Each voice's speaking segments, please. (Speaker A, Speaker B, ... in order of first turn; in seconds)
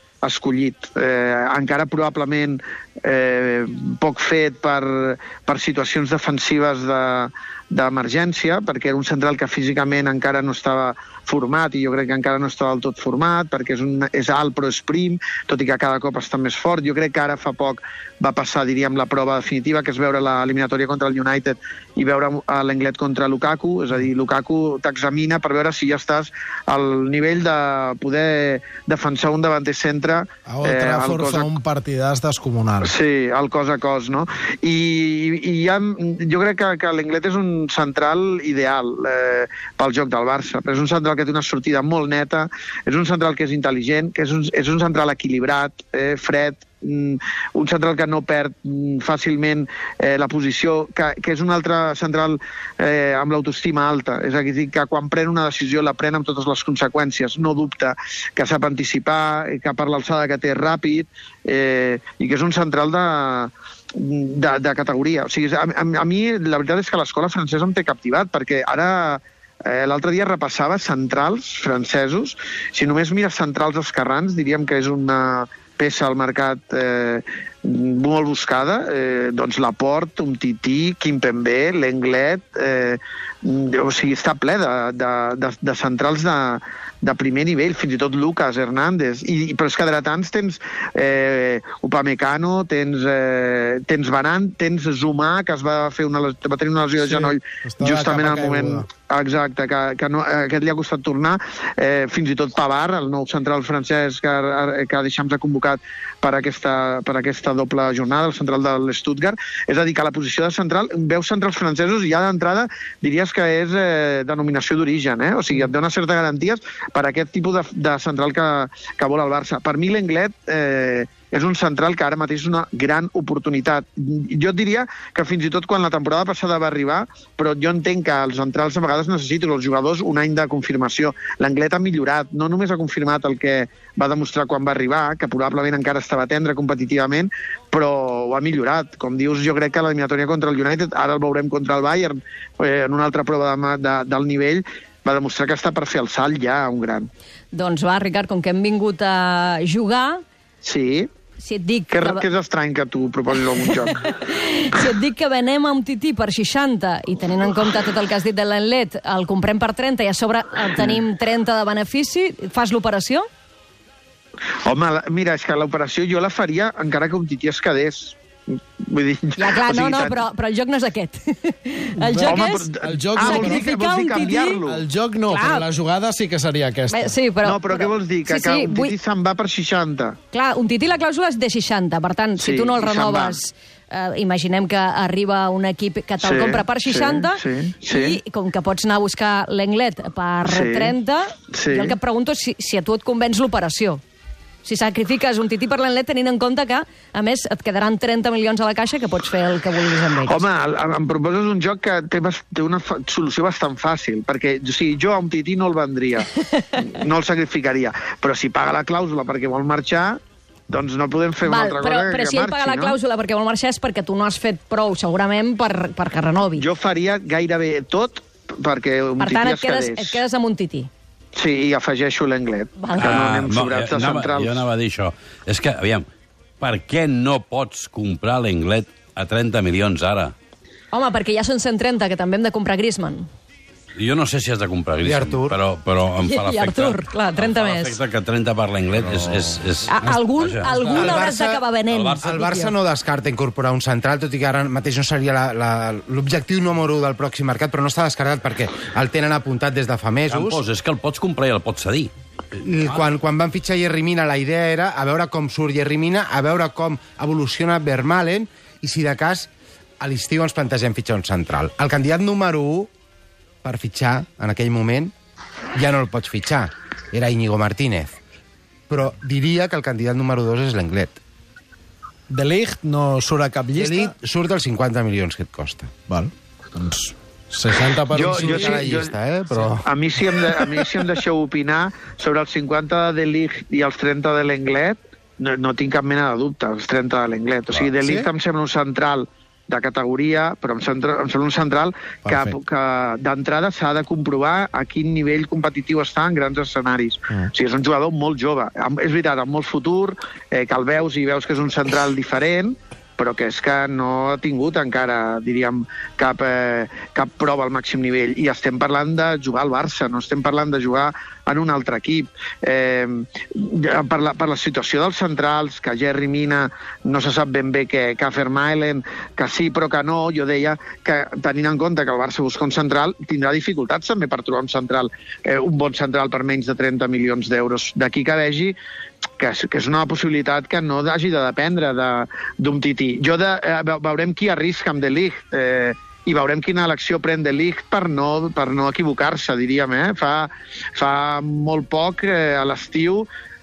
Speaker A: 0.2-31.5, 32.8-147.1, 150.6-151.1, 151.9-153.9, 164.6-168.2, 168.8-170.2, 172.2-174.8, 177.4-180.2, 182.4-183.4, 186.2-188.2, 190.4-190.9, 191.5-192.0, 200.2-212.9, 216.5-220.2, 221.3-224.7, 278.1-279.1, 279.7-328.8, 329.4-343.3
Speaker B: 30.5-32.9, 97.0-98.9, 172.0-173.7, 174.2-177.1, 272.3-274.1, 276.1-279.0, 287.9-288.3, 292.2-292.6
Speaker C: 147.5-150.2, 151.4-152.2, 153.4-163.2, 169.4-172.7, 173.2-174.6, 175.3-175.7, 176.9-178.9, 180.3-194.0, 194.6-200.4, 206.3-206.7, 211.4-216.7, 219.2-220.9, 222.8-223.2, 230.9-233.3, 236.2-238.0, 239.9-242.7
Speaker D: 223.0-226.1, 226.6-230.3, 234.0-241.2, 241.9-242.4, 250.3-252.1
Speaker E: 235.0-235.6, 240.9-241.6, 242.2-250.6, 252.6-259.5, 260.0-262.9, 263.6-265.1, 265.7-268.1, 268.9-271.2, 273.8-275.9, 278.2-279.9